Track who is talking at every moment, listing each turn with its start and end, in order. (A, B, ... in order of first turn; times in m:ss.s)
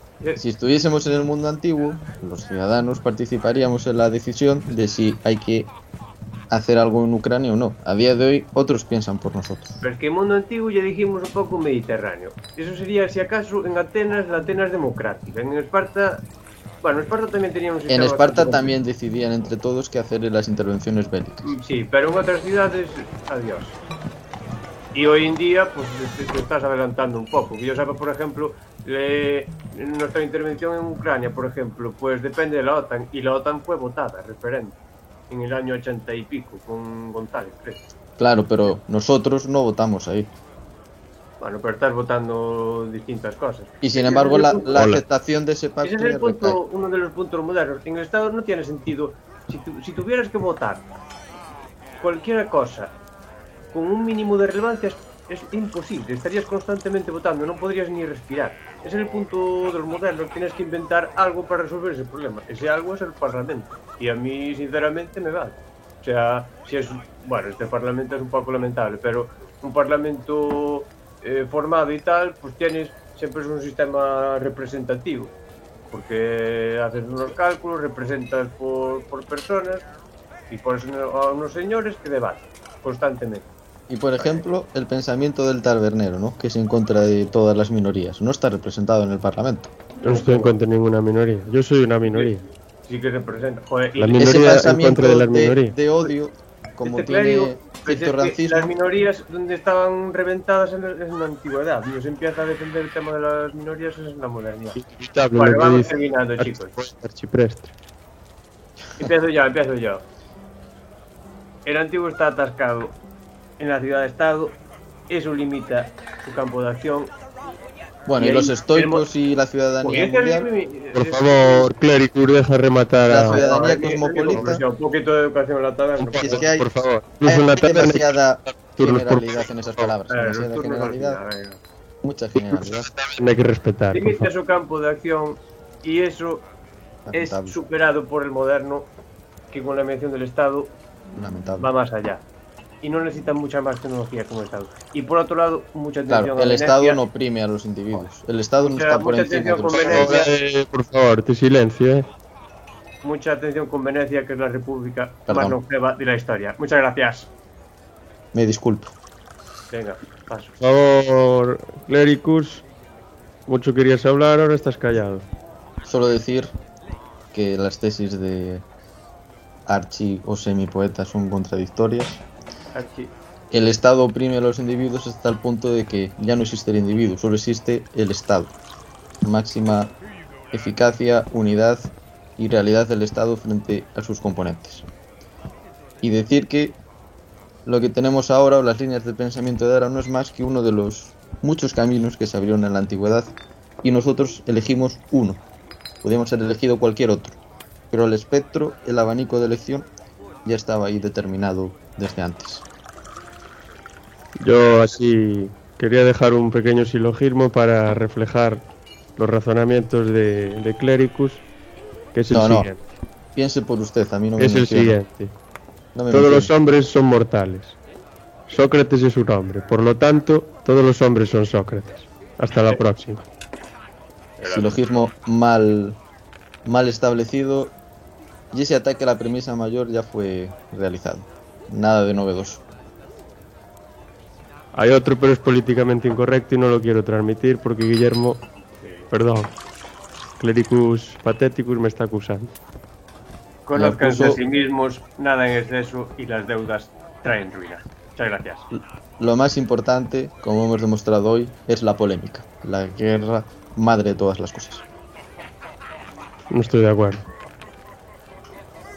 0:00.4-0:05.7 A
0:06.5-0:09.8 A
0:09.8-0:16.3 B
0:16.8-0:18.7 B
0:17.9-0:21.5 A
0:21.4-0:23.8 B
0:24.9-0:34.8 B
0:35.3-0:37.8 B
0:38.2-0:40.3 A
0:41.4-0:44.8 B
0:43.8-0:46.6 A
0:44.7-0:45.0 C
0:45.8-0:50.8 B
0:52.0-0:52.9 B
0:53.7-1:15.3 B
1:15.9-1:19.8 B
1:20.5-1:23.5 B
1:23.9-1:29.8 A
1:24.2-1:24.4 B
1:30.0-1:30.6 B
1:30.0-1:32.4 C
1:32.9-1:34.7 B
1:34.0-1:35.8 C
1:34.2-1:38.7 A
1:36.8-1:44.8 B
1:44.8-1:47.7 C
1:45.3-1:46.8 B
1:49.0-1:50.0 B
1:51.6-1:53.0 B
1:53.6-1:57.1 B
1:58.1-2:00.5 A
1:58.2-1:59.0 B
1:59.8-2:01.7 B
2:00.9-2:03.4 C
2:03.1-2:04.6 A
2:03.3-2:06.5 B
2:06.0-2:09.9 C
2:06.2-2:06.7 A
2:07.2-2:11.2 A
2:10.1-2:11.6 B
2:12.0-2:12.9 A
2:12.4-2:14.3 C
2:13.9-2:16.4 B
2:17.0-2:17.6 A
2:17.1-2:18.9 B
2:19.5-2:20.7 B
2:21.1-2:21.7 A
2:21.6-2:22.2 B
2:22.8-2:27.0 B
2:26.1-2:30.2 A
2:28.6-2:30.3 B
2:29.7-2:32.1 C
2:33.0-2:37.3 B
2:35.3-2:35.6 A
2:38.3-2:38.9 A
2:39.7-2:40.6 B
2:40.6-2:42.6 C
2:43.5-2:45.2 C
2:45.8-2:46.5 A
2:47.3-2:48.6 A
2:49.7-2:52.2 A
2:52.7-2:53.1 B
2:53.5-2:58.5 A
2:59.2-2:59.9 A
3:00.5-3:04.9 A
3:06.0-3:06.8 A
3:07.6-3:15.4 A
3:16.0-3:17.4 A
3:17.9-3:19.9 A
3:20.4-3:22.6 A
3:24.4-3:28.6 C
3:29.2-3:31.4 C
3:32.1-3:32.8 C
3:32.3-3:32.7 A
3:33.3-3:35.0 A
3:34.4-3:35.3 C
3:35.9-3:36.5 A
3:36.1-3:37.8 C
3:38.5-3:43.2 C
3:44.4-3:44.8 B
3:44.5-3:46.0 A
3:46.6-3:47.7 A
3:48.5-3:52.6 A
3:54.7-3:58.4 C
3:58.8-3:59.1 B
3:59.1-3:59.5 C
4:00.4-4:02.5 C
4:03.6-4:08.7 B
4:03.7-4:04.4 A
4:08.7-4:14.8 A
4:16.5-4:17.2 C